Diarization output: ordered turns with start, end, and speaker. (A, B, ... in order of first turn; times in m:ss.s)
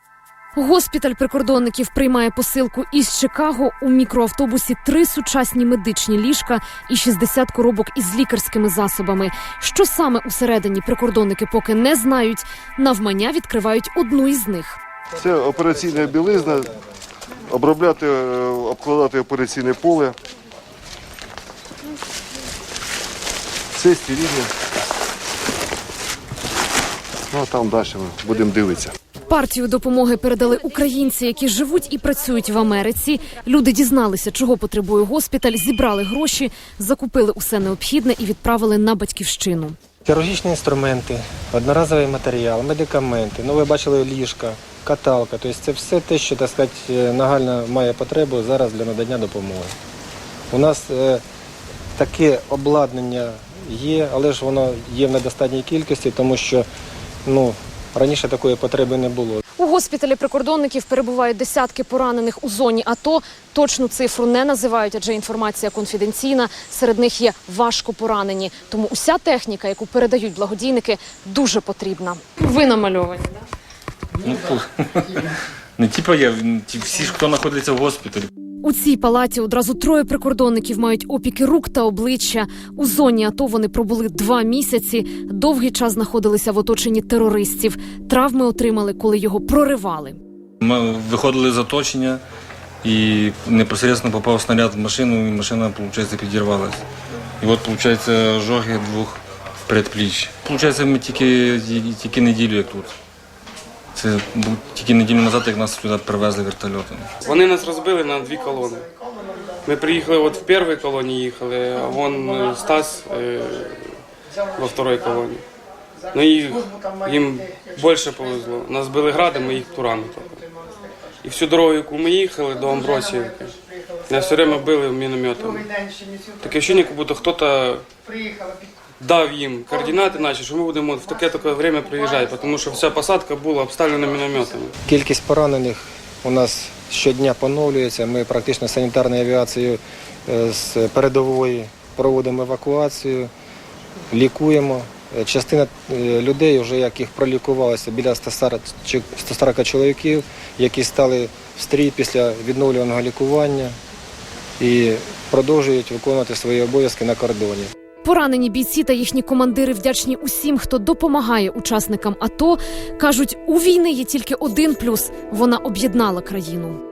0:00.6-0:14.8 A
0:15.2-0:16.8 B
0:17.5-0:20.2 B
0:23.8-0:24.5 B
0:27.3-0:28.9 B
0:29.3-0:39.8 A
0:40.0-0:49.7 C
0:50.5-0:51.2 C
0:52.0-0:56.7 C
0:57.3-0:59.4 C
0:59.6-1:13.4 A
1:14.2-1:15.2 D
1:15.8-1:18.3 D
1:18.6-1:30.2 A
1:30.6-1:32.2 D
1:32.8-1:36.8 D
1:37.4-1:42.9 D
1:43.9-1:47.1 D
1:47.2-1:48.9 E
1:49.6-1:54.0 E
1:54.6-1:55.4 E
1:56.1-2:00.5 E
2:01.2-2:05.8 E
2:06.4-2:07.9 E
2:09.0-2:14.7 E
2:14.9-2:23.3 C
2:24.1-2:33.8 C
2:34.6-2:37.7 C
2:38.0-2:46.8 A